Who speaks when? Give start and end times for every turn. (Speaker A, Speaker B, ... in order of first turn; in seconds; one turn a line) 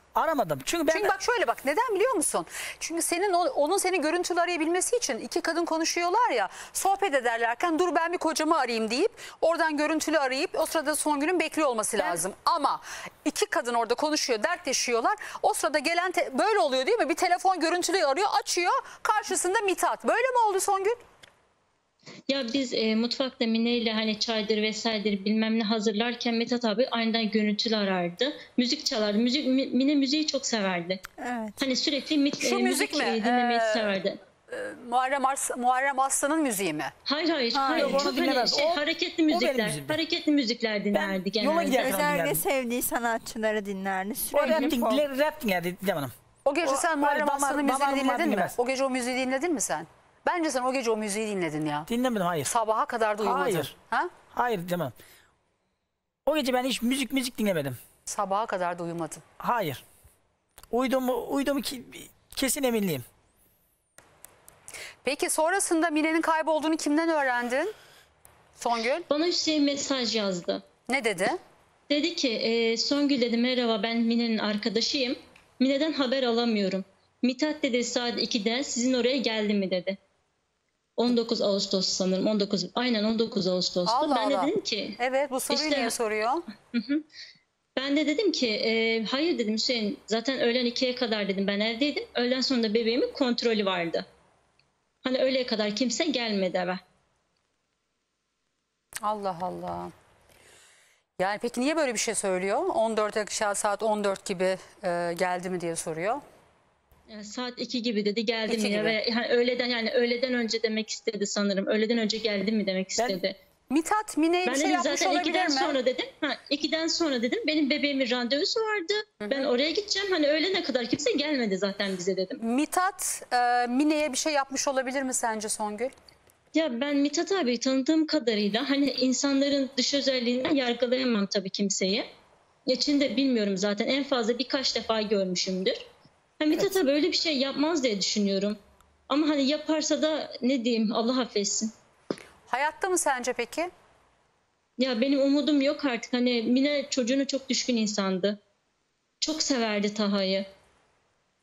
Speaker A: 0.1-1.2
Speaker B: 0.9-21.0
Speaker C: 22.3-31.0
Speaker D: 31.2-31.6
Speaker C: 31.6-34.2
Speaker B: 32.4-36.9
Speaker C: 37.1-41.9
Speaker D: 37.5-38.1
Speaker A: 37.7-40.0
Speaker A: 40.9-42.4
Speaker D: 41.7-45.0
Speaker A: 44.3-46.1
Speaker B: 46.5-51.9
Speaker A: 46.6-48.6
Speaker A: 51.9-52.5
Speaker B: 52.5-54.1
Speaker A: 53.2-53.7
Speaker A: 54.3-54.9
Speaker A: 56.3-57.8
Speaker B: 58.1-59.2
Speaker A: 59.4-59.8
Speaker A: 60.7-63.0
Speaker B: 65.0-67.7
Speaker B: 68.6-69.1
Speaker C: 69.1-70.6
Speaker B: 70.9-71.4
Speaker C: 71.9-80.0
Speaker C: 81.0-85.0
Speaker B: 83.9-86.4
Speaker C: 85.5-86.0
Speaker C: 86.7-87.0
Speaker C: 87.8-94.0
Speaker C: 95.0-96.8
Speaker B: 99.0-99.9
Speaker B: 101.2-106.2
Speaker C: 107.1-113.4
Speaker B: 108.5-109.0
Speaker B: 113.7-115.8
Speaker C: 114.5-122.4
Speaker B: 119.2-119.5
Speaker B: 122.4-125.9
Speaker C: 126.5-132.1
Speaker C: 132.7-135.8
Speaker C: 136.4-138.6
Speaker C: 139.1-141.7
Speaker B: 142.5-143.7
Speaker C: 144.8-148.4
Speaker C: 149.2-150.4